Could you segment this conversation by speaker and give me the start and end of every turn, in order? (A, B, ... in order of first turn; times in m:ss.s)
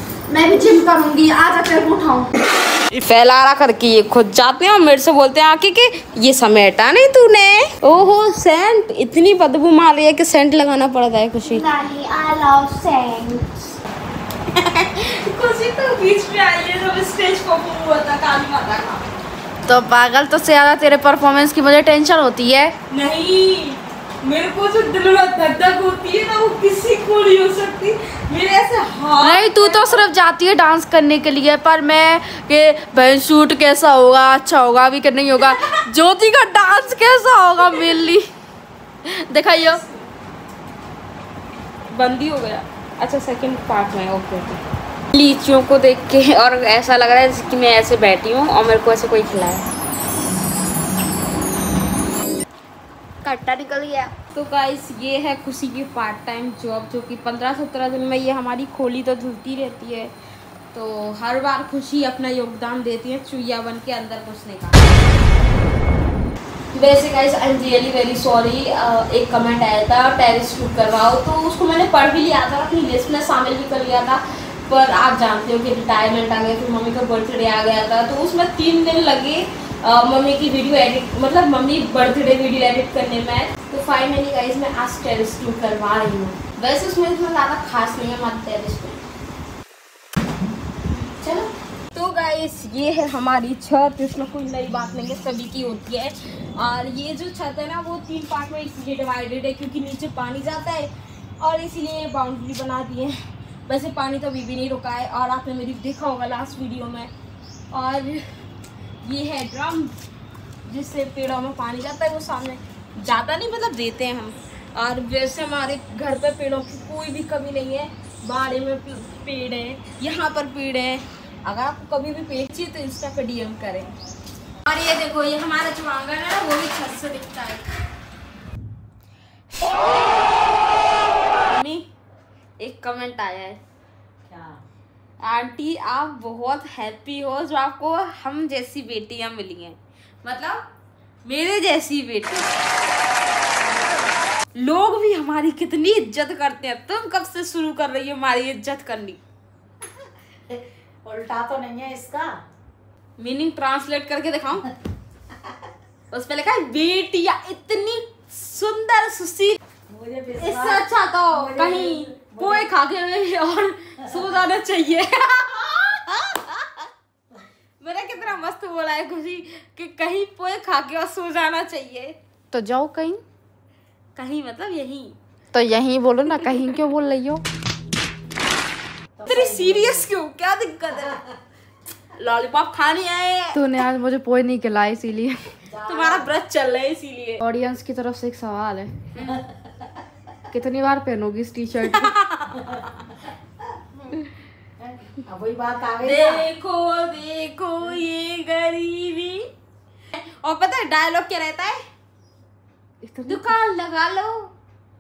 0:00.3-0:02.3 A
0:03.0-0:11.7 B
0:11.6-0:13.4 A
0:14.5-0:19.0 B
0:19.7-0:22.7 A
0:22.9-0:30.0 B
0:29.2-0:38.2 A
0:35.4-0:35.8 B
0:39.1-0:39.8 A
0:41.9-0:49.6 B
0:53.3-1:00.1 B
0:53.8-0:54.1 A
1:00.7-1:05.0 B
1:06.7-1:29.0 B
1:31.0-1:47.1 B
1:47.7-1:48.2 B
1:49.0-1:50.0 B
1:50.7-2:03.9 B
2:04.6-2:07.7 B
2:11.5-2:11.9 B
2:12.6-2:13.6 B
2:14.3-2:14.6 C
2:15.2-2:20.6 B
2:21.2-2:22.5 B
2:24.6-2:29.2 B
2:30.5-2:32.4 C
2:33.2-2:34.7 B
2:36.1-2:39.6 B
2:39.9-2:42.6 C
2:40.4-2:46.7 B
2:47.8-2:52.2 B
2:52.5-2:53.2 A
2:54.2-2:55.2 B
2:55.5-2:57.4 A
2:59.2-3:00.0 C
2:59.2-3:01.3 B
3:02.2-3:03.6 B
3:03.5-3:05.4 A
3:05.7-3:06.3 C
3:05.8-3:07.4 B
3:07.4-3:08.9 A
3:10.5-3:12.1 A
3:11.9-3:13.2 B
3:14.8-3:16.5 C
3:16.0-3:19.5 B
3:20.1-3:21.8 B
3:23.0-3:23.5 A
3:23.3-3:24.5 B